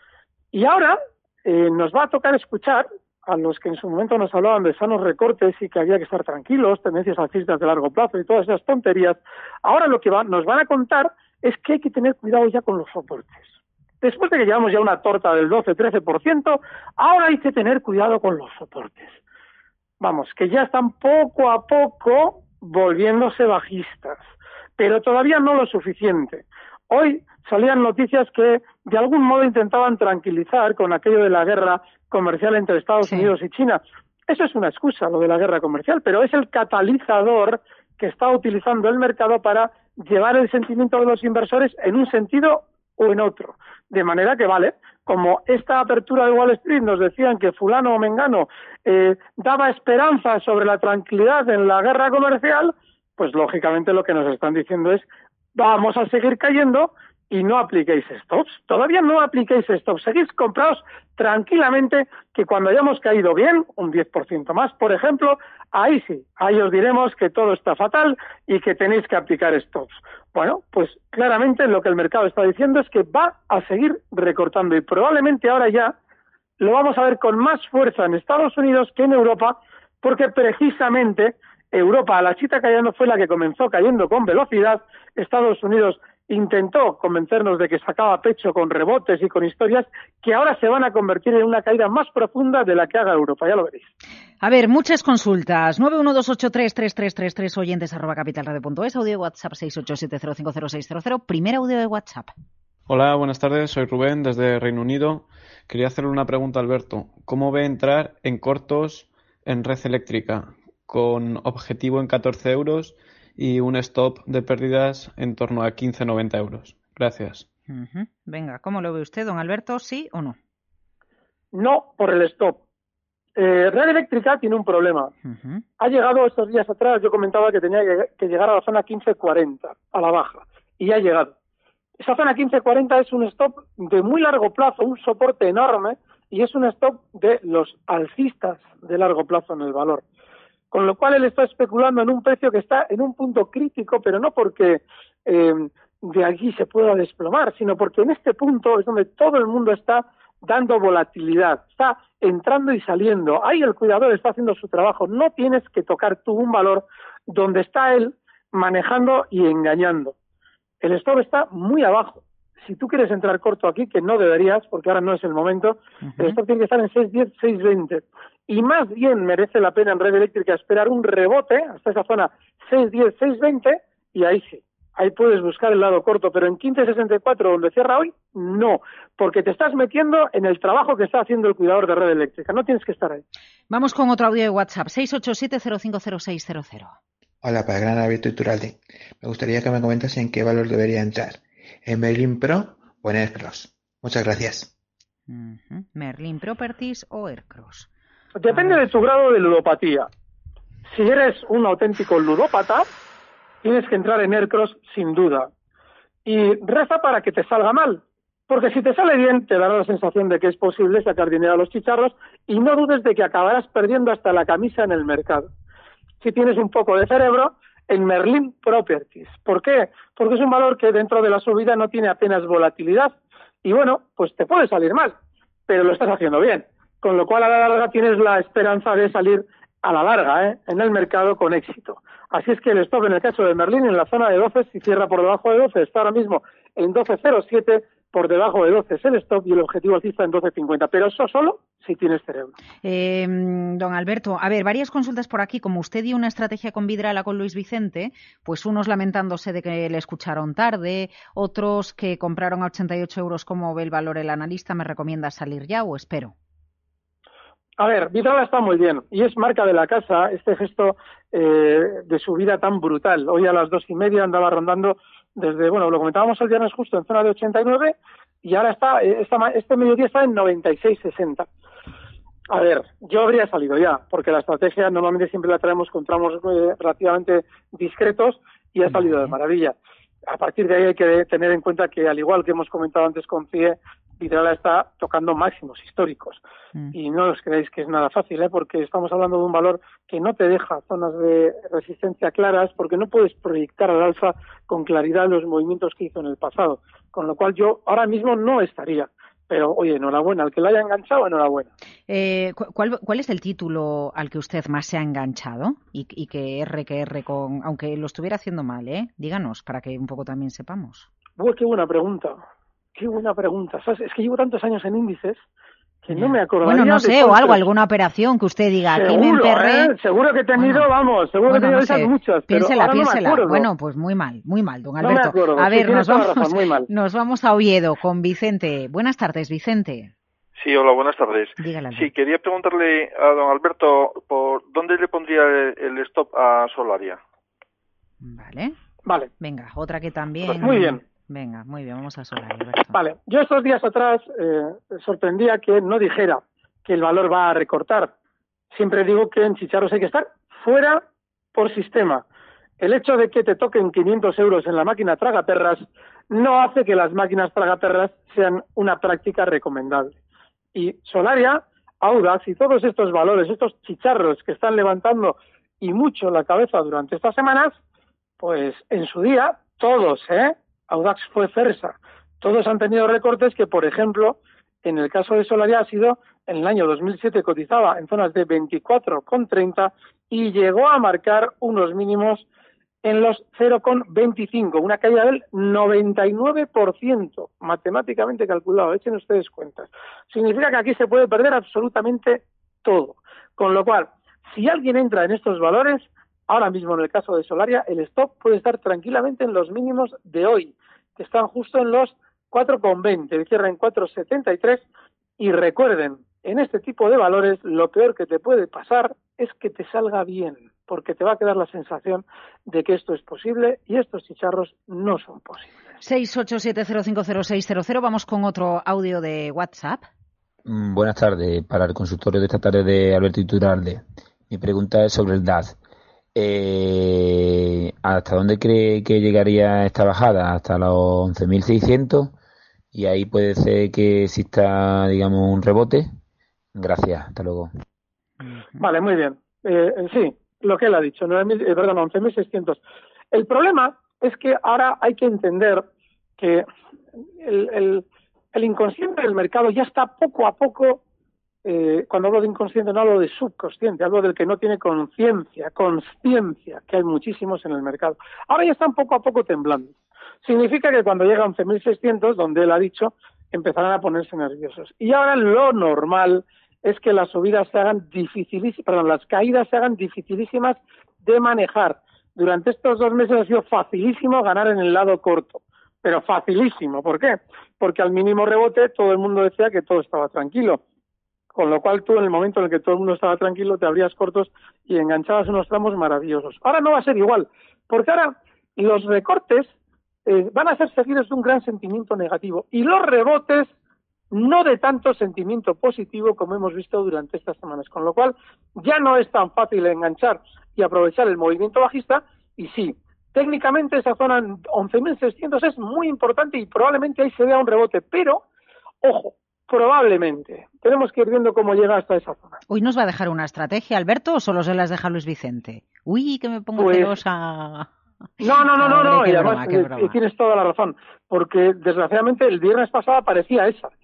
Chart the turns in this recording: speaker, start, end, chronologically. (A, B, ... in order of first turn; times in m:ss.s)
0:00.5-0:13.5 A
0:14.0-0:19.2 A
0:20.0-0:24.2 A
0:24.8-1:15.9 A
0:33.0-0:33.3 B
1:16.6-1:33.9 A
1:34.4-1:42.3 B
1:42.9-1:57.4 C
1:57.7-2:00.4 B
2:01.5-2:02.6 A
2:03.4-2:05.1 A
2:05.2-2:05.6 B
2:05.8-2:11.3 A
2:12.0-2:20.0 A
2:20.7-2:40.1 A
2:40.8-3:03.2 A
2:46.0-2:46.4 B
3:03.7-3:06.9 B
3:07.4-3:14.7 D
3:15.3-3:17.9 B
3:18.4-3:20.1 A
3:18.5-3:18.8 B
3:20.9-3:22.9 A
3:23.6-3:25.5 A
3:26.2-3:35.5 A
3:36.2-3:45.1 A
3:45.7-4:02.6 A
4:02.8-4:16.3 B
4:17.8-4:31.5 A
4:32.5-4:39.8 A
4:38.9-4:39.3 B
4:40.3-4:46.4 A
4:46.9-5:01.7 A
5:02.1-5:11.1 B
5:11.4-5:12.4 A
5:13.0-5:15.4 A
5:16.0-5:17.6 A
5:16.1-5:19.9 B
5:18.9-5:23.7 A
5:20.6-5:20.9 B
5:21.5-5:30.1 B
5:25.0-5:26.9 A
5:30.6-5:37.2 E
5:31.6-5:32.1 B
5:38.2-5:38.8 B
5:39.0-5:39.3 A
5:39.4-5:43.0 B
5:40.6-5:41.0 A
5:42.9-5:48.1 A
5:48.7-5:51.0 A
5:51.5-5:52.2 A
5:52.8-6:00.1 A
6:00.8-6:07.8 A
6:08.4-6:22.5 A
6:23.0-6:44.8 A
6:45.4-6:55.7 A
6:56.0-7:00.0 B
7:00.6-7:05.8 F
7:06.4-7:12.3 F
7:12.9-7:16.1 F
7:16.7-7:17.7 F
7:18.4-7:18.8 B
7:18.8-7:22.8 A
7:23.3-7:25.9 A
7:26.4-7:26.6 A
7:27.4-7:31.0 A
7:31.6-8:00.8 A
8:01.5-8:09.7 A
8:10.2-8:13.7 A
8:14.3-8:28.4 A
8:29.0-8:32.6 A
8:32.7-8:37.9 B
8:36.8-8:37.1 A
8:38.4-8:43.9 A
8:38.7-8:40.1 B